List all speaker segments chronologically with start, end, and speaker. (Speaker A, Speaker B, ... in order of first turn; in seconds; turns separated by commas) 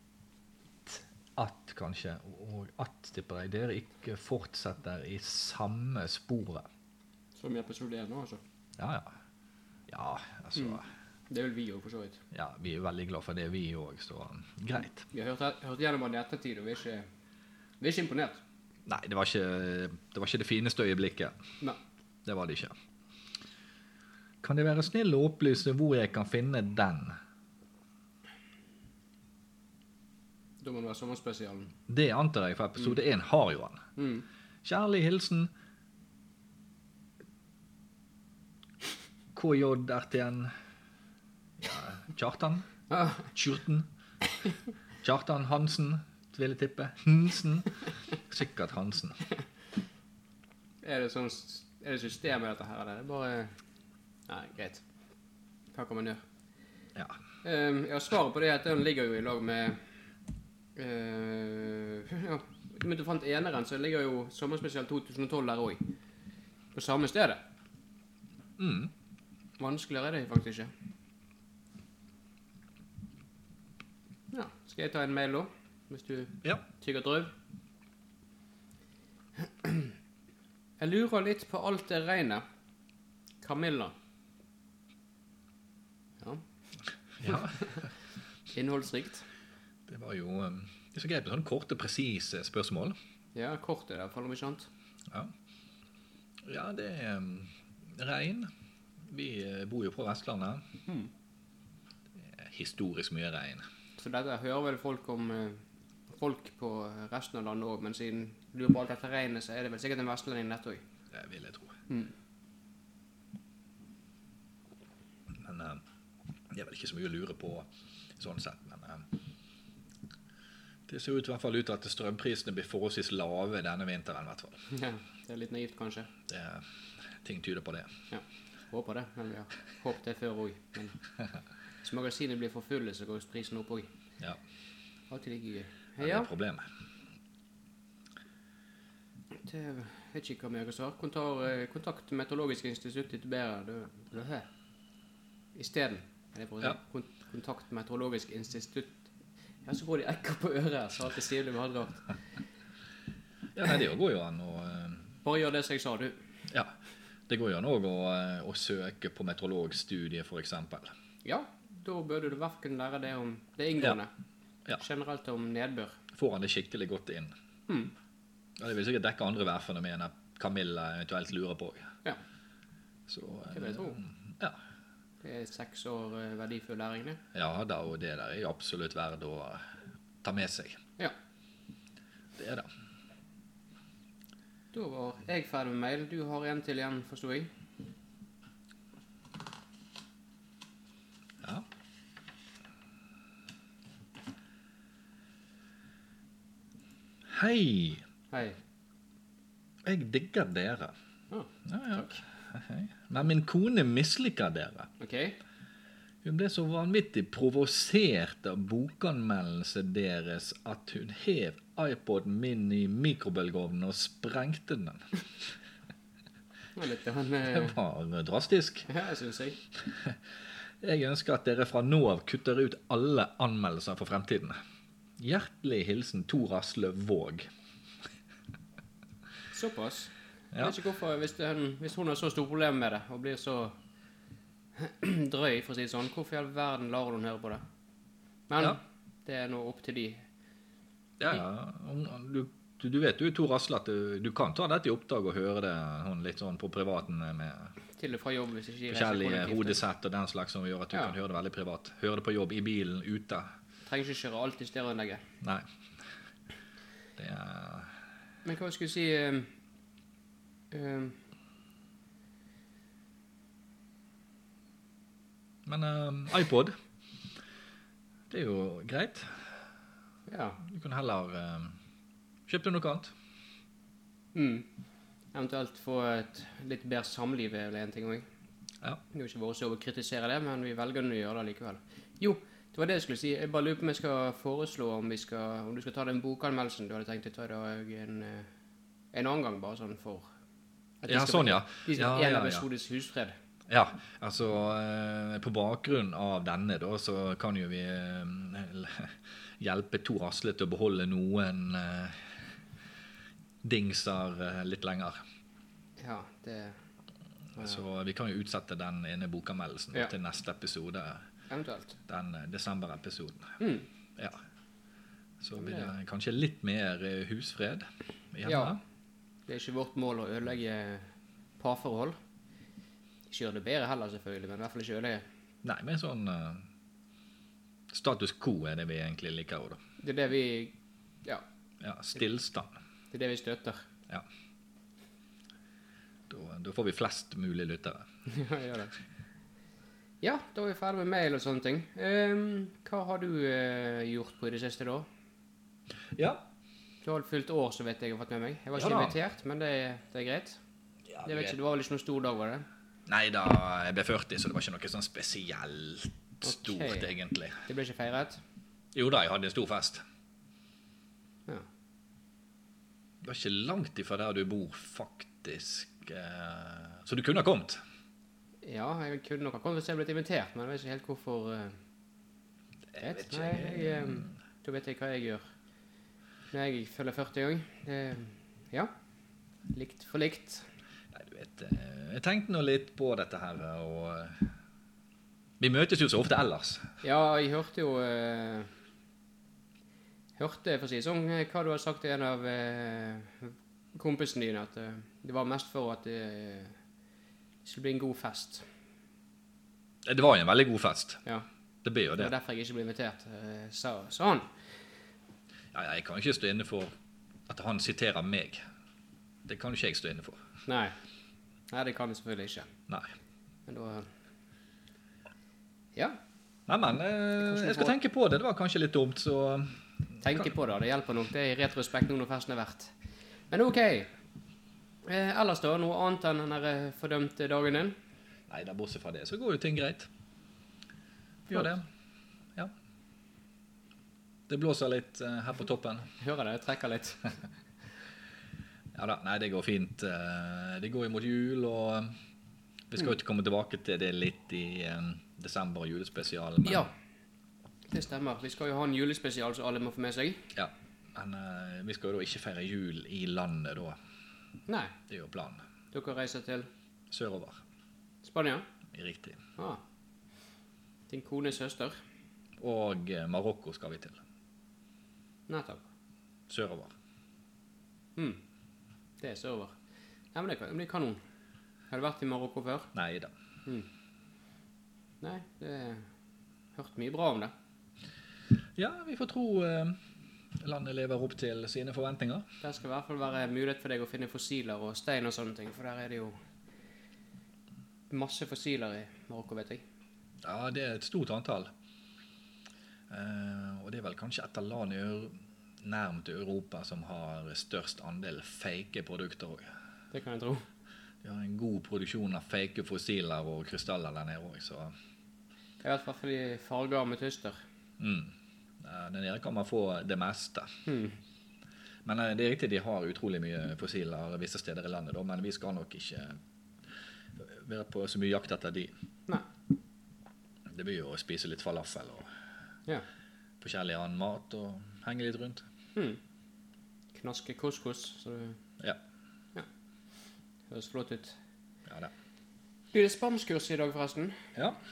Speaker A: 0.8-6.7, Speaker B: 7.4-8.4, Speaker A: 8.8-9.1, Speaker A: 9.9-10.8, Speaker B: 10.6-12.2, Speaker A: 12.3-15.1, Speaker B: 15.1-17.1, Speaker B: 17.8-18.4, Speaker A: 18.9-21.4, Speaker A: 22.2-22.7, Speaker A: 24.4-27.2, Speaker B: 30.6-31.7, Speaker A: 31.9-33.8, Speaker B: 34.0-34.2, Speaker A: 34.6-35.5, Speaker A: 39.3-40.5, Speaker A: 41.6-42.7, Speaker B: 42.9-43.3, Speaker A: 43.3-43.9, Speaker A: 45.0-49.2, Speaker B: 50.8-53.5, Speaker B: 54.3-54.8, Speaker B: 55.7-56.2, Speaker B: 57.4-59.8, Speaker B: 60.8-65.9, Speaker B: 66.7-67.4, Speaker A: 68.6-68.9, Speaker B: 69.6-70.7, Speaker B: 74.3-77.3, Speaker B: 79.4-79.9, Speaker B: 80.8-82.4, Speaker B: 83.4-83.9, Speaker A: 87.2-87.7, Speaker B: 87.2-87.8, Speaker B: 88.5-89.3, Speaker A: 89.9-92.9, Speaker B: 93.3-94.7, Speaker A: 96.4-98.5, Speaker A: 99.0-100.6, Speaker A: 102.2-103.7, Speaker B: 104.0-110.8, Speaker A: 111.1-111.8, Speaker A: 115.4-115.8, Speaker A: 116.5-119.1, Speaker A: 120.9-124.6, Speaker B: 124.7-126.1, Speaker A: 126.3-127.9, Speaker B: 128.1-131.0, Speaker B: 131.8-133.9, Speaker B: 135.1-136.3, Speaker A: 136.0-136.7, Speaker B: 139.3-144.5, Speaker B: 145.5-149.1, Speaker B: 149.6-152.1, Speaker A: 153.5-155.1, Speaker B: 155.2-156.2, Speaker A: 157.3-160.9, Speaker B: 161.2-164.1, Speaker B: 164.8-166.0, Speaker A: 166.1-167.3, Speaker A: 168.6-171.9, Speaker A: 173.1-174.6, Speaker B: 173.5-174.0, Speaker B: 175.2-177.2, Speaker A: 177.3-179.6, Speaker A: 180.2-180.8, Speaker A: 182.3-182.7, Speaker B: 184.7-187.5, Speaker A: 191.4-191.7, Speaker A: 197.3-198.0, Speaker B: 198.3-198.6, Speaker A: 199.8-200.9, Speaker B: 201.3-202.2, Speaker A: 201.6-204.9, Speaker B: 205.0-205.4, Speaker A: 206.2-215.1, Speaker B: 216.8-217.8, Speaker A: 217.5-218.9, Speaker B: 218.9-219.6, Speaker A: 219.9-220.2, Speaker A: 220.8-224.6, Speaker A: 225.2-227.5, Speaker B: 229.5-233.8, Speaker A: 230.5-230.8, Speaker B: 234.8-237.6, Speaker B: 238.5-240.2, Speaker A: 241.2-247.8, Speaker B: 248.0-249.8, Speaker A: 248.9-253.5, Speaker B: 253.8-255.2, Speaker A: 255.4-255.7, Speaker A: 257.2-257.9, Speaker B: 258.4-259.5, Speaker B: 260.7-261.2, Speaker A: 265.6-266.7, Speaker A: 268.3-269.4, Speaker B: 270.3-270.6, Speaker A: 270.6-271.8, Speaker A: 272.5-273.1, Speaker B: 274.3-274.6, Speaker B: 275.3-278.2, Speaker B: 279.1-288.5, Speaker B: 289.1-290.3, Speaker B: 291.0-293.4, Speaker A: 291.1-292.7, Speaker A: 293.7-302.3, Speaker A: 303.6-305.2, Speaker B: 306.0-306.7, Speaker A: 307.6-311.2, Speaker B: 311.5-312.0, Speaker A: 312.1-313.6, Speaker B: 313.6-313.9, Speaker A: 314.1-314.4, Speaker A: 315.4-318.8, Speaker B: 315.6-315.9, Speaker B: 318.4-318.8, Speaker B: 319.5-322.2, Speaker B: 323.3-325.2, Speaker A: 325.6-326.6, Speaker A: 327.9-329.8, Speaker B: 330.0-331.4, Speaker A: 331.8-332.7, Speaker B: 333.1-333.9, Speaker A: 336.3-338.1, Speaker B: 338.3-338.9, Speaker B: 340.2-345.1, Speaker A: 346.1-346.5, Speaker B: 347.0-350.6, Speaker A: 348.8-349.2, Speaker A: 351.1-351.6, Speaker B: 351.2-352.6, Speaker A: 353.1-357.6, Speaker B: 356.4-357.1, Speaker B: 357.6-358.4, Speaker A: 358.9-360.0, Speaker A: 363.2-367.8, Speaker B: 368.6-371.8, Speaker A: 372.9-374.3, Speaker B: 373.0-375.4, Speaker B: 376.5-378.9, Speaker B: 379.7-380.7, Speaker A: 381.1-384.5, Speaker A: 385.6-386.9, Speaker B: 387.0-388.7, Speaker B: 390.4-396.8, Speaker B: 397.6-398.6, Speaker A: 400.0-401.2, Speaker A: 401.8-402.3, Speaker B: 402.1-404.6, Speaker A: 405.7-406.9, Speaker A: 407.5-408.6, Speaker A: 409.4-410.4, Speaker B: 410.7-410.9, Speaker B: 411.7-412.7, Speaker B: 413.7-414.1, Speaker A: 416.7-420.5, Speaker B: 417.4-417.9, Speaker B: 420.2-422.9, Speaker B: 423.5-424.1, Speaker B: 425.0-427.9, Speaker A: 428.5-430.1, Speaker A: 431.5-431.9, Speaker A: 434.5-436.1, Speaker B: 436.2-437.3, Speaker A: 438.9-442.1, Speaker A: 442.9-446.9, Speaker B: 446.6-446.9, Speaker B: 447.9-450.5, Speaker A: 450.5-454.0, Speaker B: 454.7-454.9, Speaker A: 455.1-455.6, Speaker B: 455.9-456.7, Speaker A: 457.1-457.6, Speaker B: 458.2-458.6, Speaker A: 458.9-459.4, Speaker B: 459.6-459.8, Speaker B: 461.1-462.0, Speaker A: 462.6-464.2, Speaker B: 465.5-465.9, Speaker A: 466.5-466.9, Speaker B: 469.2-469.8, Speaker B: 470.3-471.2, Speaker B: 471.9-472.9, Speaker A: 472.9-473.3, Speaker B: 475.2-476.1, Speaker B: 476.7-477.5, Speaker A: 478.8-480.0, Speaker A: 480.6-482.5, Speaker B: 482.6-486.4, Speaker B: 488.1-489.8, Speaker A: 490.4-491.7, Speaker A: 493.1-499.7, Speaker B: 500.1-500.7, Speaker A: 501.2-504.9, Speaker B: 505.8-507.6, Speaker A: 508.0-510.7, Speaker B: 510.9-511.2, Speaker A: 512.0-516.4, Speaker A: 517.4-518.9, Speaker A: 520.7-522.3, Speaker A: 523.6-525.6, Speaker B: 525.9-526.2, Speaker B: 527.1-528.6, Speaker B: 530.7-531.4, Speaker A: 531.9-532.1, Speaker B: 532.9-534.4